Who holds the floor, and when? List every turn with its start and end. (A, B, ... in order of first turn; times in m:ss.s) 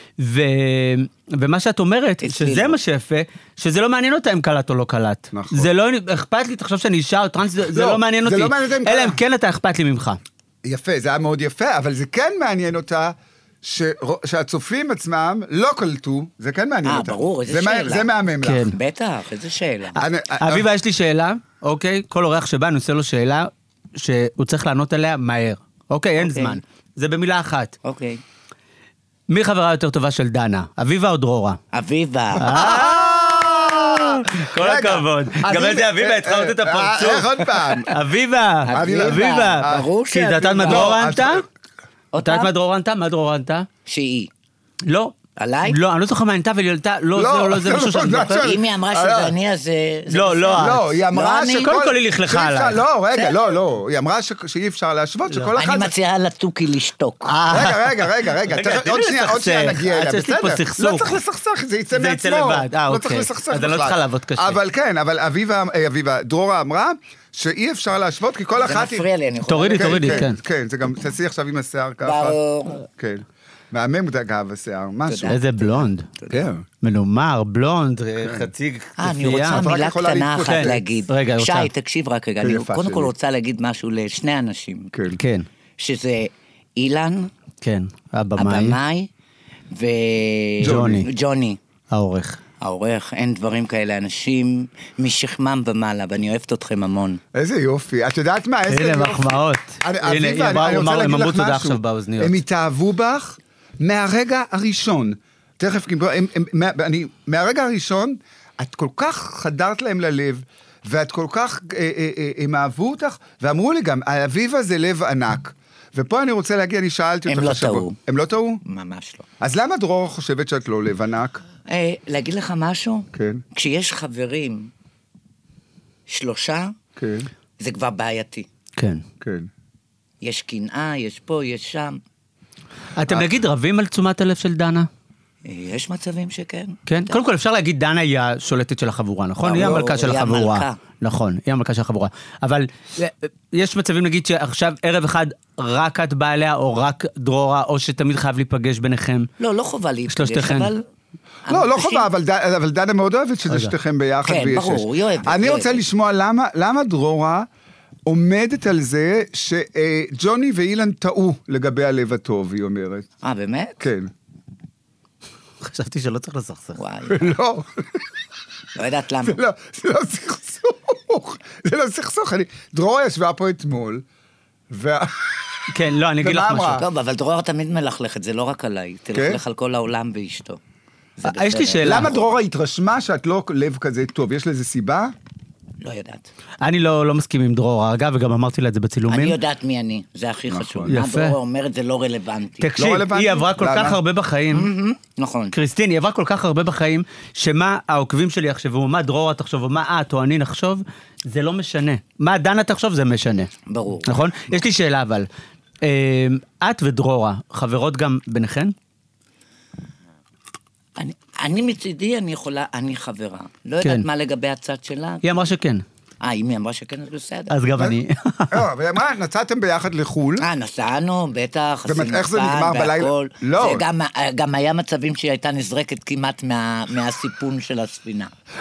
0:00.2-0:10.2 A
0:02.2-0:02.8 B
0:05.3-0:05.7 C
0:07.7-0:09.2 C
0:10.6-0:18.8 C
0:16.8-0:18.1 B
0:18.4-0:18.8 A
0:18.7-0:20.0 B
0:20.0-0:20.7 C
0:20.4-0:27.8 A
0:26.2-0:26.6 B
0:27.8-0:28.2 B
0:29.3-0:31.6 A
0:31.7-0:32.8 B
0:32.4-0:41.4 A
0:32.4-0:37.9 C
0:38.6-0:41.0 B
0:38.7-0:39.9 C
0:40.4-0:41.4 C
0:42.1-0:42.5 B
0:42.2-0:43.7 A
0:43.9-0:44.3 B
0:44.9-0:45.2 A
0:45.4-0:45.8 B
0:45.7-0:48.5 A
0:47.2-0:49.4 C
0:48.4-0:51.7 B
0:50.1-0:50.8 A
0:50.6-0:55.9 C
0:51.6-0:52.8 A
0:55.6-0:57.4 B
0:57.3-1:01.2 A
0:57.5-1:09.1 C
1:01.9-1:04.6 A
1:08.6-1:10.3 B
1:09.5-1:10.4 A
1:09.8-1:15.4 C
1:12.0-1:12.8 B
1:15.1-1:16.4 B
1:15.3-1:16.1 A
1:16.3-1:16.6 C
1:16.8-1:19.7 A
1:19.0-1:24.9 B
1:19.5-1:20.9 C
1:20.5-1:21.7 A
1:22.4-1:23.1 C
1:24.9-1:25.2 C
1:25.2-1:25.5 A
1:25.8-1:27.3 B
1:27.6-1:28.8 A
1:28.4-1:29.1 B
1:29.7-1:31.6 B
1:30.6-1:31.1 A
1:30.6-1:31.1 C
1:31.9-1:32.4 A
1:32.6-1:37.2 B
1:37.3-1:58.6 C
1:38.7-1:42.4 A
1:57.3-1:58.0 B
1:58.6-1:59.3 B
1:59.4-2:01.4 C
2:01.7-2:04.7 B
2:03.1-2:03.4 C
2:06.1-2:06.8 B
2:07.0-2:07.3 C
2:07.6-2:08.5 B
2:08.8-2:09.0 A
2:09.2-2:09.5 C
2:10.2-2:12.0 B
2:13.0-2:14.9 A
2:15.4-2:17.2 B
2:16.9-2:29.3 A
2:19.4-2:20.8 B
2:19.6-2:19.9 C
2:29.4-2:30.8 B
2:30.1-2:30.7 A
2:31.4-2:32.1 B
2:31.5-2:37.5 C
2:34.2-2:35.8 B
2:38.1-2:43.1 C
2:43.2-2:43.8 B
2:43.8-2:44.1 C
2:45.6-2:46.8 A
2:46.8-2:47.3 B
2:47.1-2:48.0 C
2:48.8-2:49.4 B
2:49.2-2:54.0 C
2:54.7-2:56.8 C
2:55.7-2:56.8 A
2:56.8-3:00.6 B
2:59.1-2:59.4 C
3:01.2-3:02.2 B
3:01.2-3:02.1 A
3:01.8-3:05.1 C
3:05.8-3:06.3 B
3:06.6-3:09.4 A
3:09.1-3:12.7 B
3:10.5-3:11.0 C
3:10.9-3:11.4 A
3:12.6-3:14.7 A
3:12.8-3:14.0 C
3:14.5-3:15.6 B
3:15.5-3:23.5 A
3:23.7-3:24.2 B
3:24.1-3:25.3 A
3:25.8-3:28.8 A
3:31.0-3:35.2 B
3:35.2-3:35.8 A
3:36.2-3:37.7 B
3:37.5-3:38.6 A
3:38.5-3:40.4 C
3:40.4-3:48.3 B
3:41.9-3:43.8 C